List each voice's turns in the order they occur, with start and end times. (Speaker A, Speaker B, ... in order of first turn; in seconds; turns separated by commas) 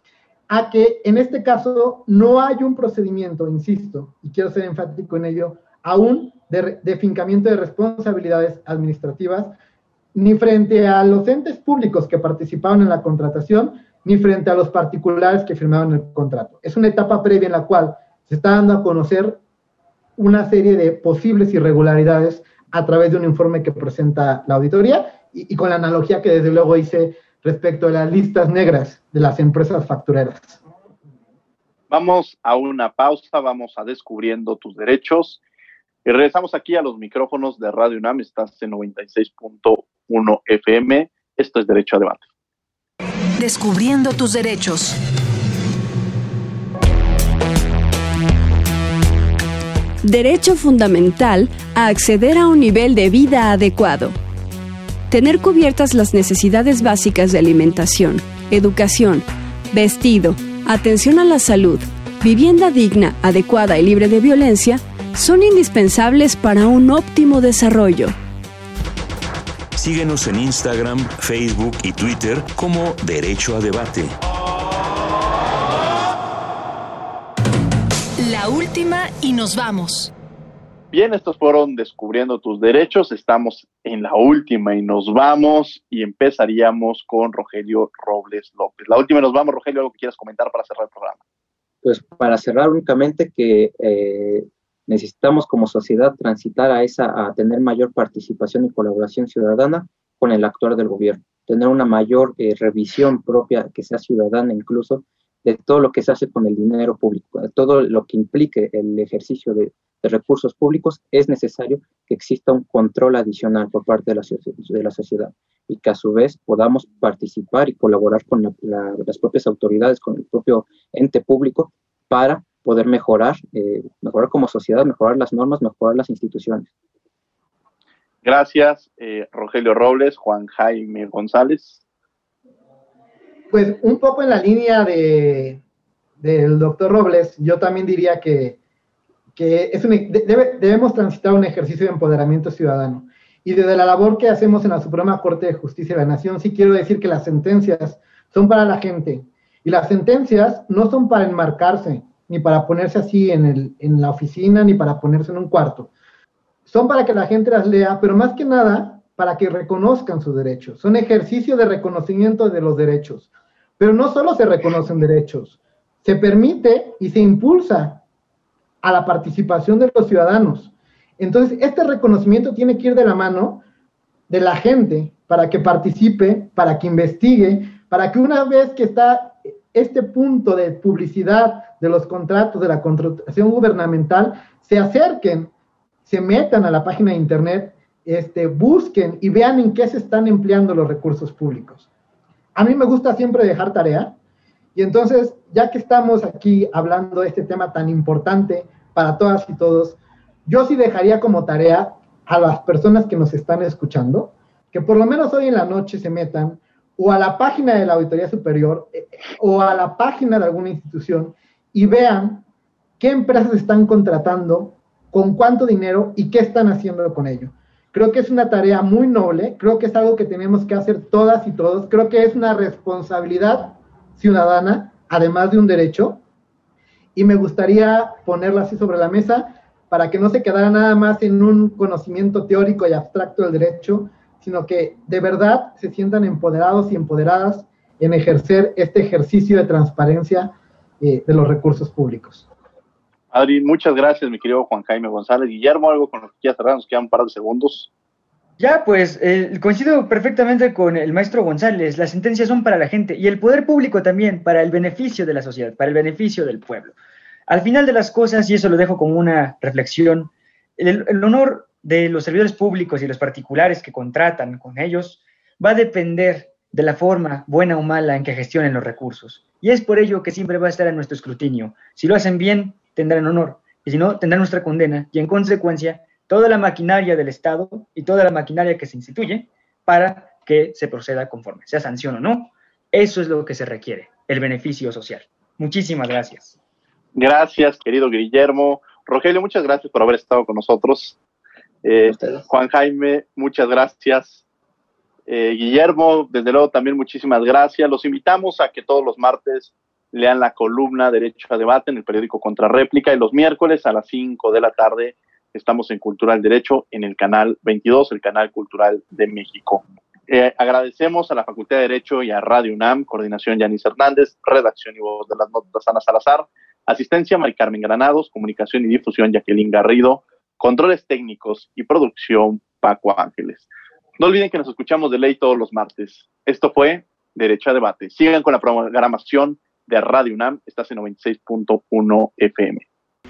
Speaker A: 0.5-9.5, Speaker A: 10.1-19.4, Speaker A: 20.2-30.6, Speaker B: 31.9-35.4, Speaker B: 36.0-42.3, Speaker C: 43.4-45.0, Speaker D: 50.0-54.1, Speaker D: 55.1-68.1, Speaker E: 69.7-74.2, Speaker C: 78.2-80.1, Speaker B: 80.9-91.2, Speaker F: 91.8-126.7, Speaker B: 128.2-131.8, Speaker A: 133.5-135.6, Speaker A: 136.2-138.6, Speaker A: 139.3-155.9, Speaker A: 156.7-168.0, Speaker A: 168.8-173.6, Speaker A: 174.3-185.5, Speaker A: 186.1-191.9, Speaker A: 192.6-194.2, Speaker A: 194.7-212.4, Speaker A: 213.0-226.2, Speaker A: 227.1-242.4, Speaker B: 243.3-247.9, Speaker G: 248.6-256.9, Speaker G: 257.5-286.6, Speaker B: 287.1-291.2, Speaker B: 291.8-294.4, Speaker F: 292.2-292.4, Speaker B: 295.3-332.8